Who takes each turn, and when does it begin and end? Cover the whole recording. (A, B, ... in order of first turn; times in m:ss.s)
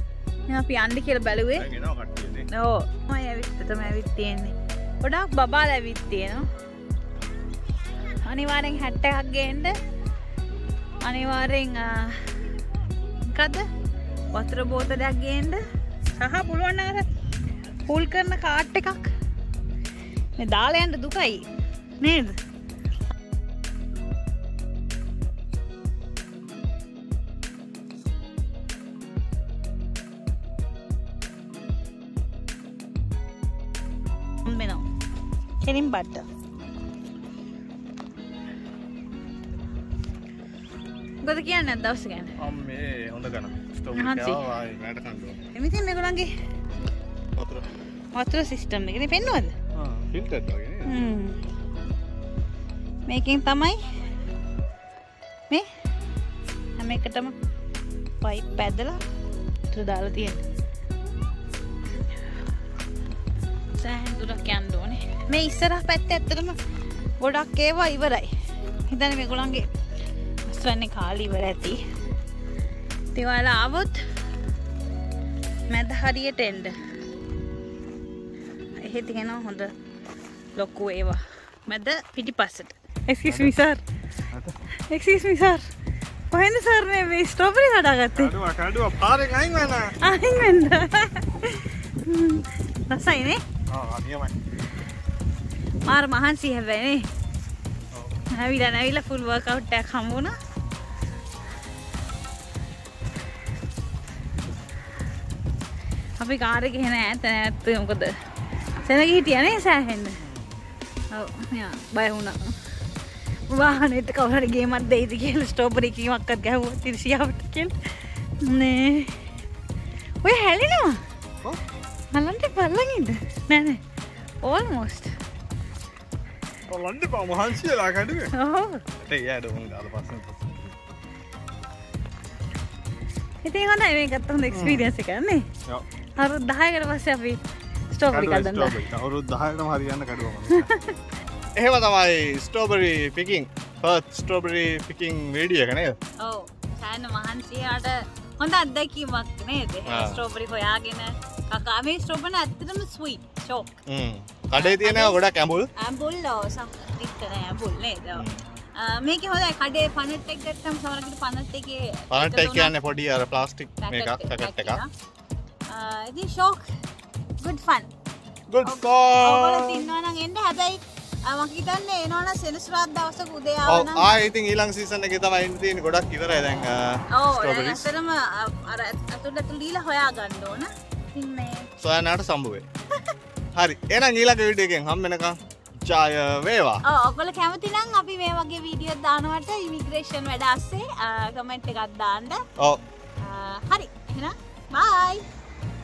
0:00.5-0:01.7 A
0:01.5-0:02.5 B
0:02.5-0:06.4 A
0:08.0-0:09.7 A
0:11.0-0:12.4 A
0:13.2-0:13.7 A
0:14.3-0:15.6 A
0:16.1-0:17.1 A
0:17.8-0:19.0 A
0:20.4-0:21.4 A
0:22.0-0:22.4 A
0:34.4-0:34.8 A
0:35.6-0:36.2 A
0:41.2-0:42.3 A
0:42.4-0:45.4 B
0:43.9-0:44.4 A
0:45.5-0:46.3 A
0:47.4-0:47.7 B
0:48.1-0:49.5 A
0:49.7-0:50.9 B
0:50.8-0:51.4 A
0:53.1-0:53.8 A
0:56.8-0:57.3 A
0:58.2-0:59.0 A
0:59.7-1:00.4 A
1:03.8-1:06.6 A
1:07.2-1:08.3 A
1:08.9-1:09.7 A
1:10.5-1:11.8 A
1:13.1-1:14.0 A
1:15.7-1:16.8 A
1:18.8-1:19.7 A
1:20.5-1:23.8 A
1:23.2-1:23.6 B
1:24.3-1:24.6 B
1:24.9-1:25.6 A
1:26.3-1:28.3 A
1:28.1-1:30.0 B
1:30.0-1:33.4 A
1:33.7-1:34.3 B
1:35.8-1:37.0 A
1:38.3-1:40.3 A
1:46.2-1:48.1 A
1:48.8-1:50.2 A
1:51.1-1:52.6 A
1:53.5-1:59.2 A
2:00.2-2:01.0 A
2:02.1-2:03.8 A
2:04.4-2:05.1 A
2:06.7-2:08.3 B
2:08.3-2:08.8 A
2:09.0-2:10.7 B
2:13.4-2:15.5 A
2:14.5-2:14.9 B
2:16.2-2:17.4 A
2:17.9-2:18.8 A
2:18.1-2:20.7 B
2:20.6-2:20.9 A
2:21.6-2:26.0 B
2:26.2-2:33.7 A
2:29.9-2:30.2 B
2:33.9-2:35.7 B
2:34.5-2:35.2 A
2:35.8-2:42.7 A
2:38.1-2:38.4 B
2:42.1-2:44.8 B
2:43.8-2:44.9 A
2:45.7-2:46.7 A
2:47.4-2:47.9 A
2:48.5-2:49.9 B
2:48.6-2:54.3 A
2:53.7-2:57.9 B
2:57.1-3:01.7 A
3:01.8-3:02.6 B
3:03.5-3:06.8 B
3:06.8-3:12.4 A
3:13.2-3:15.2 A